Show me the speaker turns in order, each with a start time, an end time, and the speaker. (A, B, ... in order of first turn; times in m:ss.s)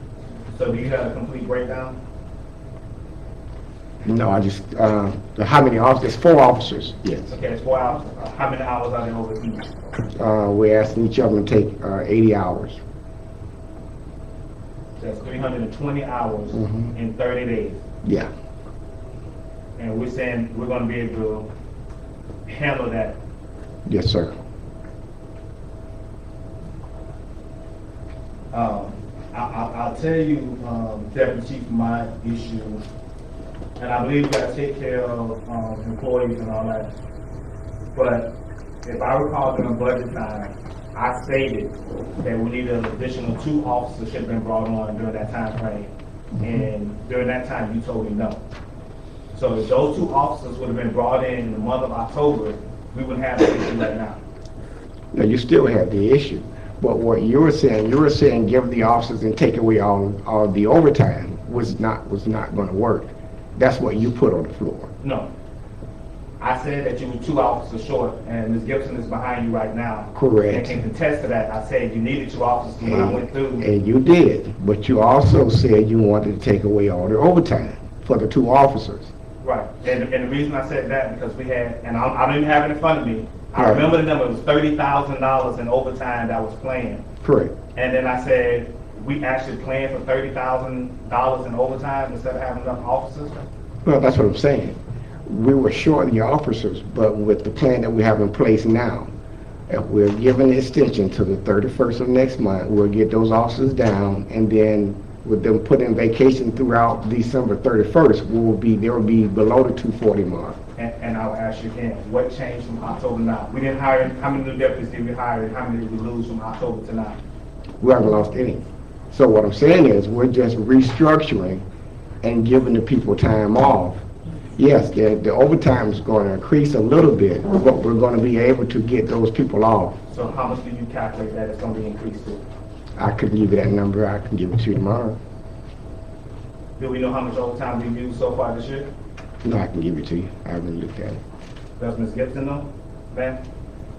0:00.5-0:02.0 A
0:04.0-0:07.3 B
0:07.3-0:09.9 A
0:10.1-0:12.8 B
0:15.0-0:17.8 A
0:16.5-0:16.9 B
0:18.0-0:18.3 B
0:19.8-0:21.5 A
0:22.5-0:23.2 A
0:23.8-0:24.3 B
0:28.5-0:32.8 A
0:33.8-0:36.9 A
0:37.9-0:48.4 A
0:49.3-0:54.2 A
0:55.1-1:04.9 B
1:05.0-1:05.3 A
1:06.4-1:13.6 A
1:10.1-1:10.8 B
1:12.8-1:19.1 B
1:19.4-1:27.0 A
1:23.6-1:23.9 B
1:27.2-1:27.5 B
1:27.7-1:33.4 A
1:33.8-1:39.1 B
1:39.7-1:50.6 B
1:50.8-1:57.2 A
1:57.8-2:01.6 B
2:02.2-2:04.0 B
2:04.5-2:10.0 B
2:10.1-2:12.4 A
2:13.0-2:15.2 B
2:16.8-2:18.9 A
2:19.4-2:21.2 B
2:21.8-2:23.4 A